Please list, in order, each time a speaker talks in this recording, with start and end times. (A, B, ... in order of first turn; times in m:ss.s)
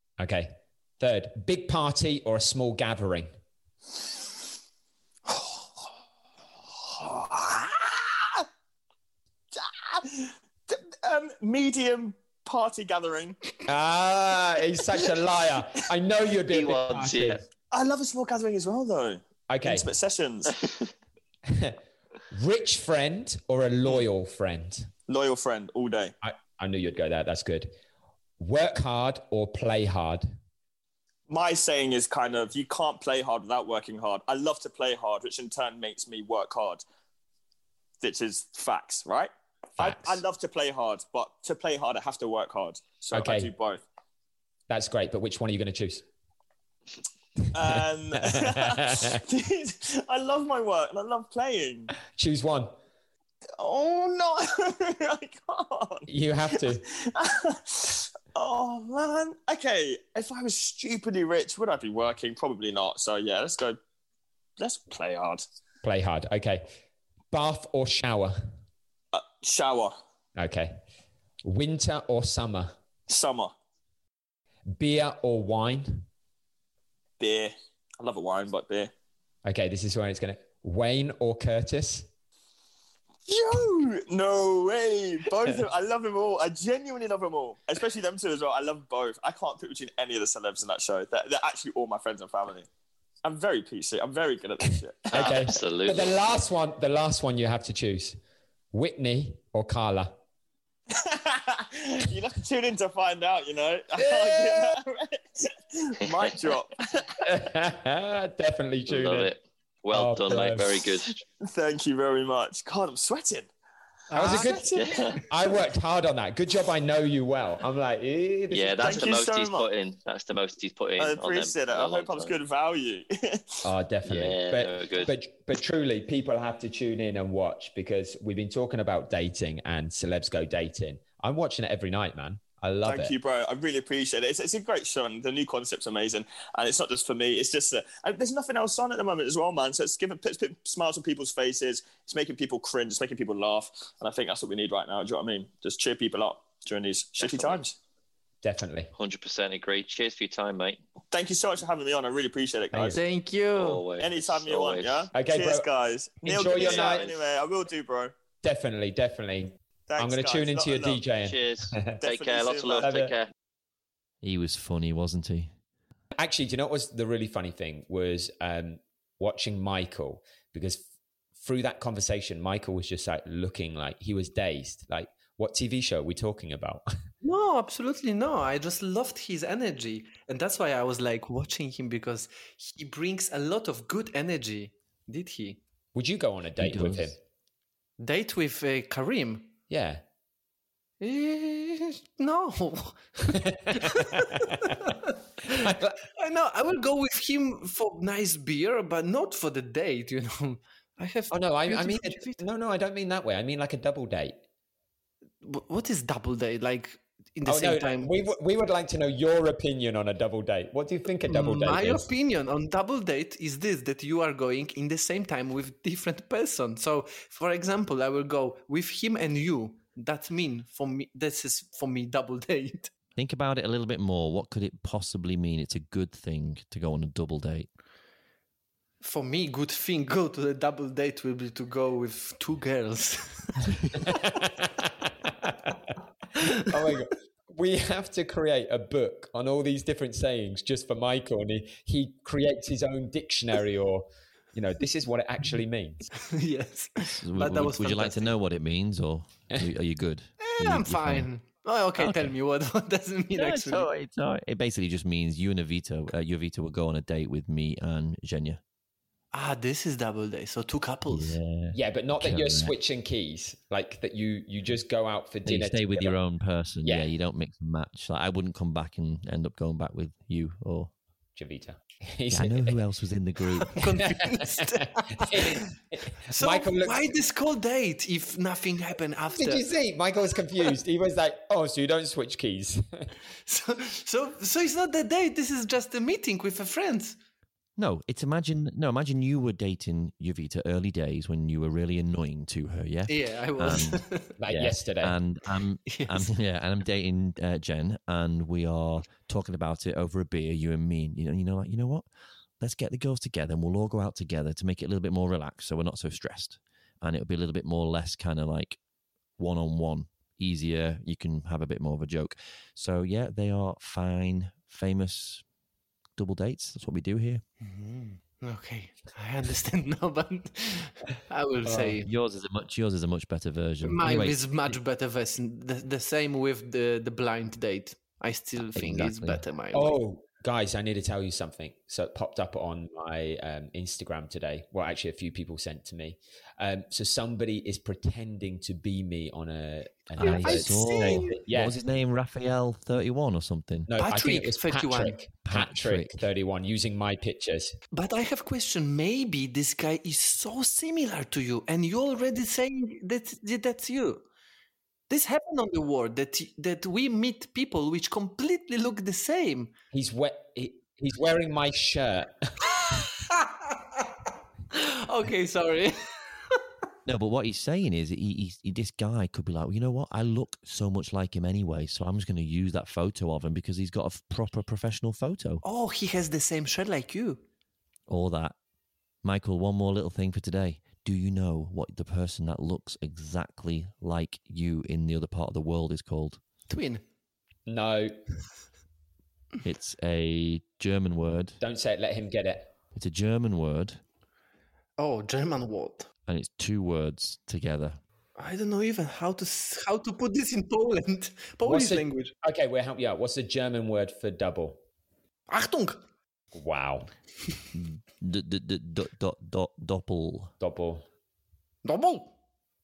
0:00.2-0:03.3 A
0:05.3-0:05.9 B
0:06.8-0:08.4 B
0:09.6-0:13.4 B
0:13.7-0:17.4 A
0:16.5-0:17.4 C
0:17.7-0:20.6 B
0:19.5-0:19.9 A
0:21.5-0:21.8 A
0:22.3-0:24.9 A
0:25.1-0:26.1 B
0:26.2-0:27.7 A
0:28.4-0:30.4 A
0:31.3-0:36.8 B
0:38.0-0:43.8 B
0:39.8-0:40.2 A
0:43.1-0:43.5 A
0:44.7-0:46.0 A
0:47.5-0:51.9 B
0:47.6-0:49.2 A
0:52.1-0:52.7 A
0:53.6-1:03.8 B
0:56.1-0:56.8 A
1:04.6-1:05.4 B
1:05.8-1:06.7 A
1:07.3-1:08.4 A
1:09.1-1:09.9 B
1:10.4-1:10.8 A
1:11.4-1:12.7 A
1:13.1-1:13.5 B
1:14.7-1:16.1 A
1:17.2-1:18.9 B
1:19.4-1:22.1 A
1:23.3-1:32.7 B
1:33.2-1:35.5 B
1:35.1-1:38.2 A
1:35.2-1:36.1 C
1:38.7-1:40.2 A
1:40.9-1:47.2 B
1:44.0-1:44.8 A
1:47.2-1:49.3 A
1:48.9-1:51.2 C
1:49.9-1:50.9 A
1:51.4-1:53.5 B
1:54.1-1:55.2 D
1:54.1-1:54.7 A
1:54.3-1:54.8 B
1:54.7-1:55.2 C
1:55.3-1:59.1 A
1:58.5-2:02.4 C
1:58.8-1:59.7 B
2:01.0-2:03.5 B
2:03.6-2:13.1 A
2:04.0-2:05.1 C
2:12.9-2:27.8 B
2:27.2-2:27.6 C
2:28.4-2:28.9 A
2:29.0-2:30.8 C
2:31.1-2:33.0 B
2:32.7-2:33.0 A
2:32.9-2:33.8 D
2:33.6-2:35.1 C
2:34.0-2:38.1 B
2:35.1-2:35.7 A
2:36.2-2:37.1 A
2:36.5-2:37.2 C
2:38.4-2:42.0 A
2:39.9-2:41.0 B
2:41.2-2:43.3 C
2:42.0-2:42.9 B
2:42.8-2:43.1 A
2:44.2-2:45.5 E
2:46.2-2:50.8 A
2:51.4-2:56.8 A
2:57.2-3:05.6 D
3:06.0-3:07.2 A
3:06.6-3:07.1 E
3:08.0-3:09.5 D
3:09.7-3:10.0 A
3:11.0-3:22.4 D
3:13.7-3:14.9 A
3:15.6-3:15.9 A
3:21.3-3:24.4 A
3:25.4-3:28.1 D
3:27.4-3:32.1 A
3:31.3-3:42.9 D
3:43.2-3:47.7 E
3:49.0-3:54.4 D
3:54.1-3:56.0 A
3:56.6-4:06.1 A
4:06.3-4:08.3 D
4:07.1-4:11.3 E
4:10.4-4:13.9 D
4:12.0-4:12.3 E
4:13.4-4:18.6 E
4:19.3-4:21.4 D
4:21.1-4:22.7 E
4:21.7-4:26.2 A
4:25.4-4:30.9 E
4:26.8-4:27.1 A
4:31.4-4:32.8 A
4:32.3-4:33.9 E
4:33.6-4:35.7 D
4:34.6-4:37.1 A
4:36.3-4:39.7 D
4:39.3-4:43.1 A
4:43.4-4:47.2 D
4:47.8-5:02.0 E
4:53.1-4:54.3 D
4:54.4-4:55.2 A
4:55.9-4:56.3 D
5:02.6-5:08.8 E
5:09.4-5:15.4 E
5:16.2-5:17.4 E
5:17.6-5:22.1 D
5:21.7-5:24.7 E
5:23.8-5:30.0 D
5:28.7-5:29.4 E
5:29.7-5:41.8 A
5:40.2-5:41.4 D
5:40.2-5:43.9 E
5:43.9-5:47.7 A
5:44.0-5:45.2 D
5:45.4-5:46.2 E
5:47.9-5:54.2 D
5:55.1-5:59.7 D
5:59.9-6:02.5 A
6:02.8-6:04.1 D
6:04.7-6:06.0 D
6:07.0-6:15.6 E
6:15.6-6:17.4 D
6:18.1-6:18.6 E
6:19.2-6:26.4 E
6:26.7-6:27.0 D
6:27.7-6:28.1 A
6:29.6-6:31.6 E
6:31.6-6:32.7 A
6:33.0-6:34.0 E
6:35.0-6:36.1 D
6:36.3-6:38.0 E
6:38.4-6:42.3 D
6:41.6-6:44.8 A
6:45.5-6:46.0 D
6:46.5-6:47.1 A
6:47.7-6:50.5 E
6:50.6-6:51.0 A
6:51.8-6:52.4 D